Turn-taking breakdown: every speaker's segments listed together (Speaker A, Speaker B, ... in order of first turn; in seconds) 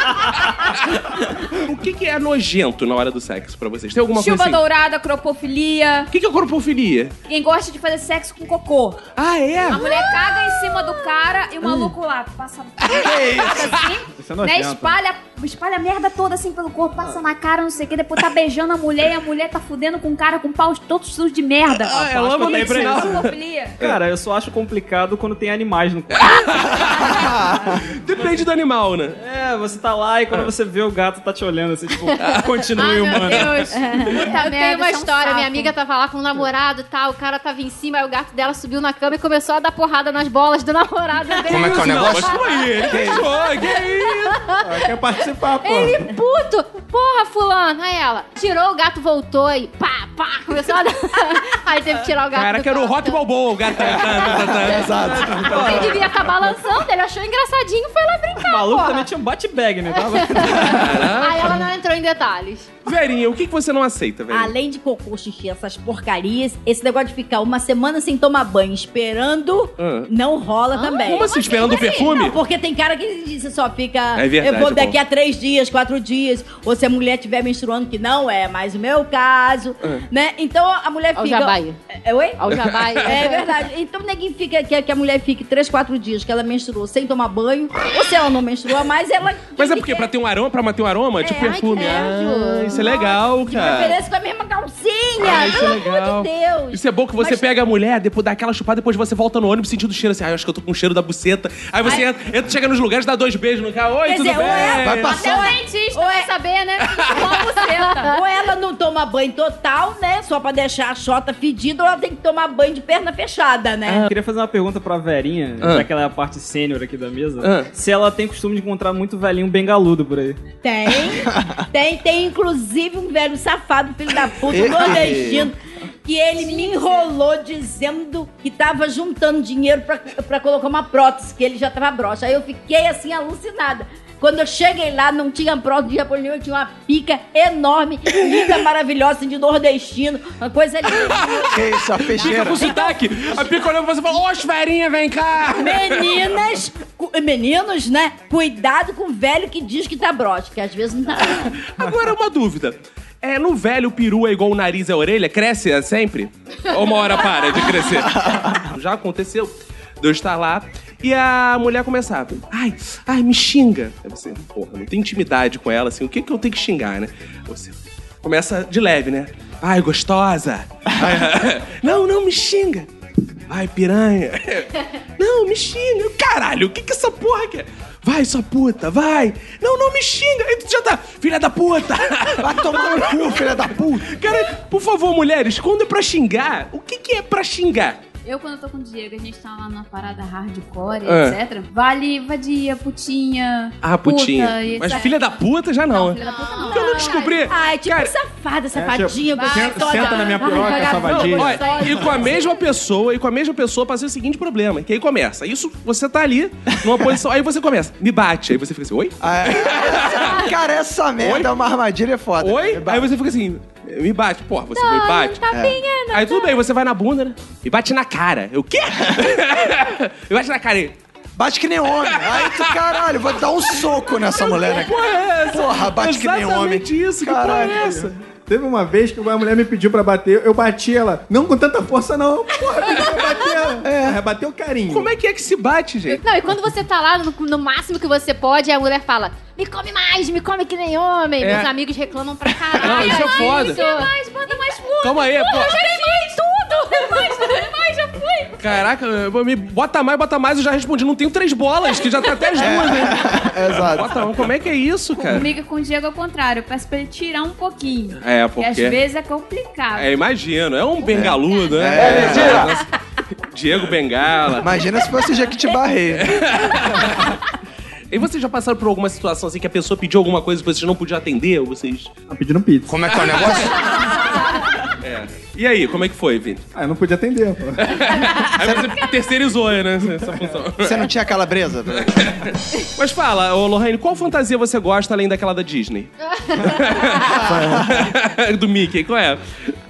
Speaker A: 0.4-4.6, 6.1-7.1, 9.2-10.1, 13.4-13.7, 21.8-24.0, 26.1-27.3, 27.9-29.2, 41.6-44.4, 52.3-55.9, 60.7-61.6, 62.9-64.5, 69.8-70.1, 71.0-72.4, 74.2-75.0, 82.5-83.0, 89.6-94.0, 95.2-105.1, 106.8-107.2, 115.6-115.9, 117.4-117.7, 142.1-146.3, 151.4-172.9, 173.5-183.5, 184.1-188.0, 191.1-191.4, 193.8-198.1, 201.1-210.5, 211.2-211.5, 212.4-215.4, 216.1-220.9, 222.1-223.1, 223.7-228.2, 234.9-236.2, 241.4-241.7, 242.8-243.8, 245.0-245.8, 248.6-255.5, 258.2-259.0, 259.9-264.7, 266.2-267.4, 268.1-272.1, 273.2-274.4, 275.0-276.6, 277.8-281.1, 281.9-289.7
Speaker B: 4.1-6.1, 7.3-9.0, 9.7-23.8, 26.7-27.4, 32.7-35.7, 71.5-72.0, 101.8-102.1, 104.5-108.2, 126.4-127.1, 188.2-195.3, 195.9-197.4, 199.3-202.4, 242.8-248.8, 251.9-252.7, 255.2-260.1, 261.5-262.3
Speaker C: 12.9-13.8, 27.1-27.8, 42.9-43.3, 54.1-55.8, 104.7-105.5, 121.1-121.6, 124.5-125.5, 141.5-142.6, 158.0-158.6, 182.4-184.2, 209.2-213.1, 215.5-215.8, 221.4-227.9, 233.8-234.2, 252.6-254.2, 261.1-262.8, 264.6-266.9, 278.6-278.9, 280.8-282.3, 287.2-288.1
Speaker D: 14.2-15.0, 44.6-46.2, 198.7-201.6, 227.5-235.1, 272.3-273.0, 276.8-278.0
Speaker E: 22.4-23.2, 23.8-26.7, 29.2-33.7, 55.5-56.1, 58.4-61.1, 114.0-120.4
Speaker F: 33.7-34.2, 64.3-71.3, 71.9-82.4, 83.0-90.1, 91.2-92.1, 92.7-97.5, 104.1-106.3, 108.1-114.1, 120.6-141.6, 142.2-143.0, 145.6-151.6, 197.5-201.7
Speaker G: 34.1-44.9, 45.6-59.1, 59.9-62.7, 70.8-71.9, 81.2-81.8, 82.4-83.6, 91.2-93.0, 106.1-108.1, 196.2-197.4, 201.4-202.6, 214.8-216.6, 236.1-244.8, 245.5-247.6, 286.2-287.5
Speaker H: 41.4-42.4, 272.9-273.9